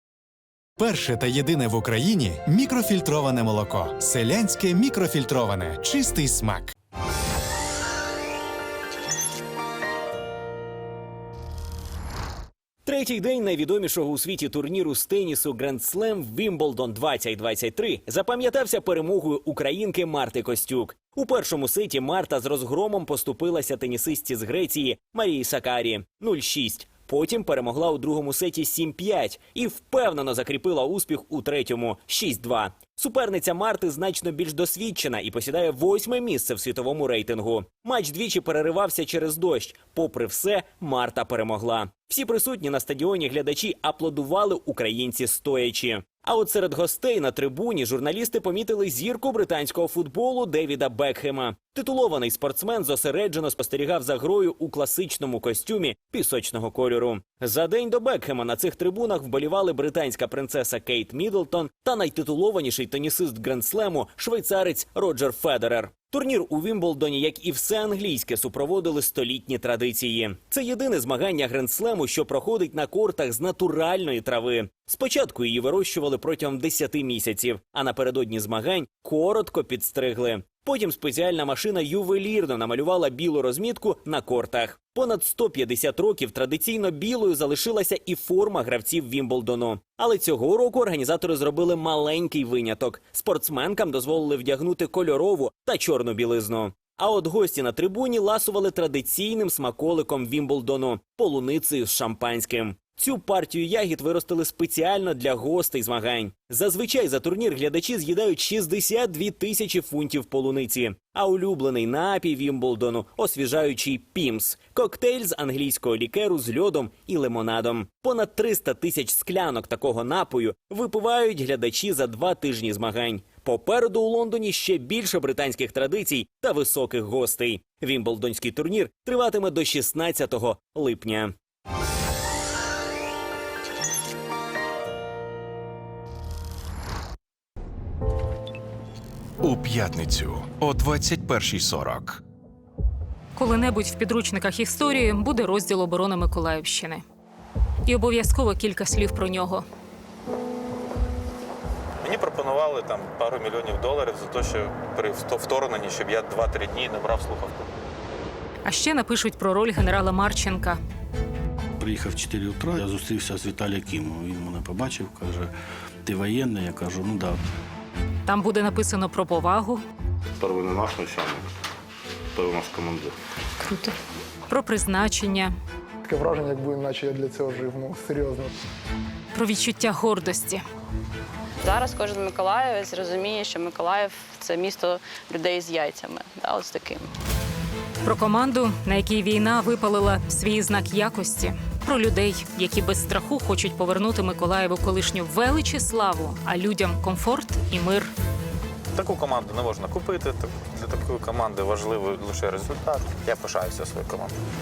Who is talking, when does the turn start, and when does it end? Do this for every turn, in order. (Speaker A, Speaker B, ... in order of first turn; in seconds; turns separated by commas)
Speaker A: 0.8-6.7, Speaker B: 12.8-131.3, Speaker C: 139.4-142.2, Speaker D: 143.3-147.0, Speaker D: 147.8-149.6, Speaker E: 152.0-157.5, Speaker D: 158.6-160.8, Speaker F: 161.8-165.5, Speaker F: 166.1-167.4, Speaker D: 168.2-169.8, Speaker G: 170.4-171.4, Speaker G: 172.3-173.1, Speaker D: 174.5-175.5, Speaker H: 176.1-178.5, Speaker D: 179.3-180.6, Speaker I: 181.7-186.9, Speaker D: 188.0-198.1, Speaker E: 198.9-204.3